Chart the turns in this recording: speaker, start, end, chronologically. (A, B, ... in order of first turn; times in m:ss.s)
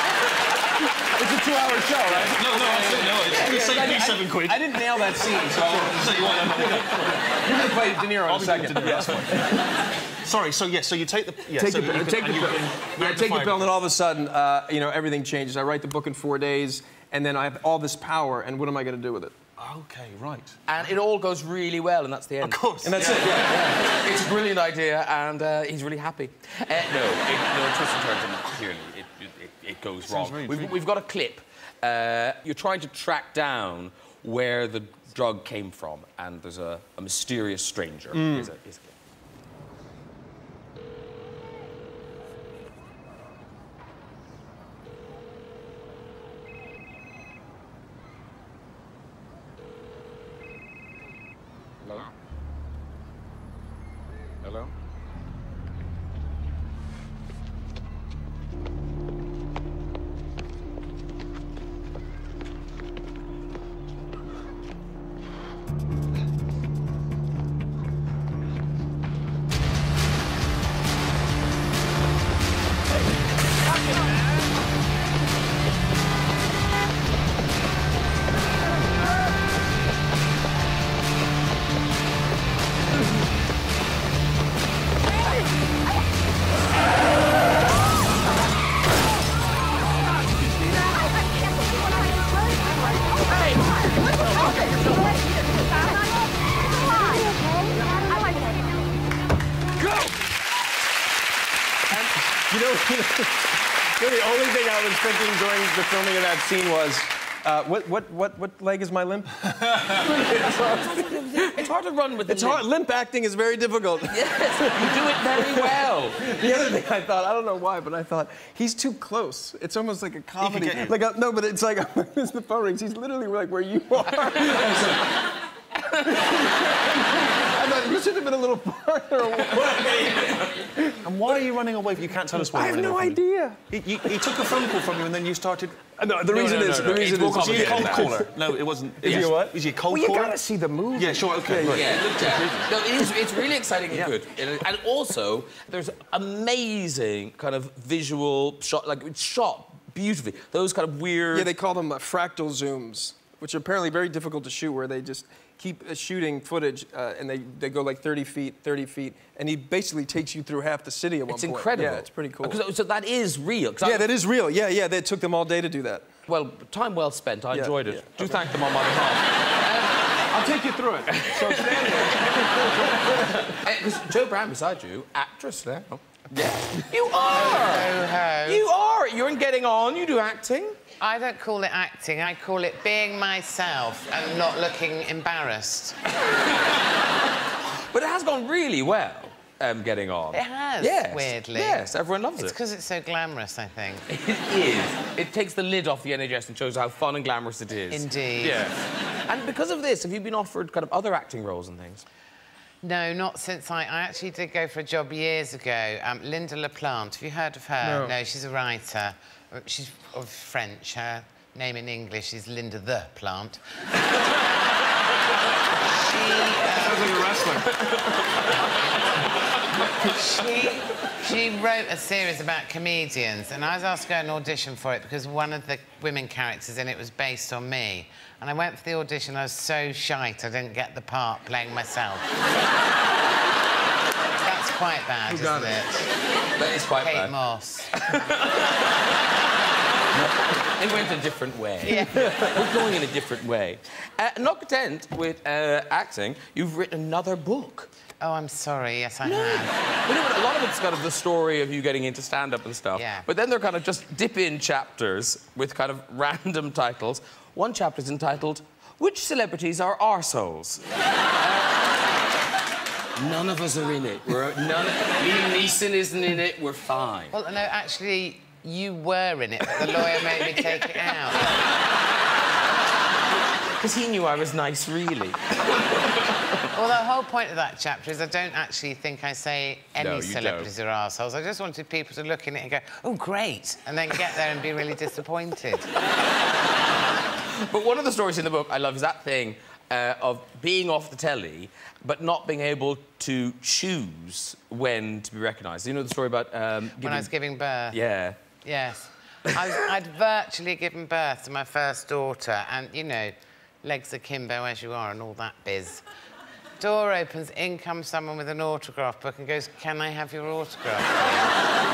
0:01.1-0:09.6 A
0:02.1-0:09.5 B
0:10.2-0:13.8 B
0:11.6-0:19.4 A
0:19.6-0:20.9 B
0:20.7-0:38.9 C
0:22.4-0:23.2 B
0:22.8-0:23.5 A
0:30.0-0:30.8 B
0:38.1-0:38.5 A
1:39.8-1:40.1 C
1:42.3-1:51.6 A
1:49.9-1:52.6 C
1:52.3-2:05.2 A
1:54.1-1:56.2 C
2:00.4-2:01.0 B
2:06.0-2:11.0 A
2:11.0-2:15.8 B
2:12.3-2:14.1 A
2:16.0-2:18.4 A
2:16.3-2:18.2 C
2:17.3-2:20.4 B
2:19.0-2:22.7 A
2:20.9-2:21.9 B
2:21.7-2:31.5 C
2:31.3-2:42.6 A
2:41.3-2:44.1 C
2:43.8-2:46.1 A
2:46.3-2:49.9 C
2:47.5-2:48.4 A
2:50.3-2:53.6 A
2:51.1-2:57.9 C
2:57.1-2:58.6 D
2:58.4-3:00.8 C
3:01.0-3:06.0 D
3:07.9-3:12.5 C
3:10.3-3:14.0 D
3:14.1-3:22.0 C
3:17.9-3:18.6 D
3:22.8-3:33.6 D
3:27.8-3:28.1 A
3:36.0-3:37.4 D
3:36.7-3:37.9 A
3:40.0-3:52.3 D
3:54.4-3:56.1 D
3:55.3-3:55.7 A
3:56.6-3:57.3 C
3:57.0-3:58.2 D
4:00.8-4:07.9 C
4:01.8-4:02.5 D
4:08.2-4:09.7 D
4:09.2-4:20.8 C
4:12.9-4:13.3 D
4:23.2-4:27.3 C
4:27.3-4:31.6 D
4:30.4-4:31.1 C
4:33.8-4:35.6 C
4:36.7-4:45.9 D
4:40.0-4:40.7 C
4:47.5-4:57.3 C
4:57.0-4:58.0 D
4:57.9-4:58.4 C
4:58.6-5:06.0 D
5:06.8-5:11.6 D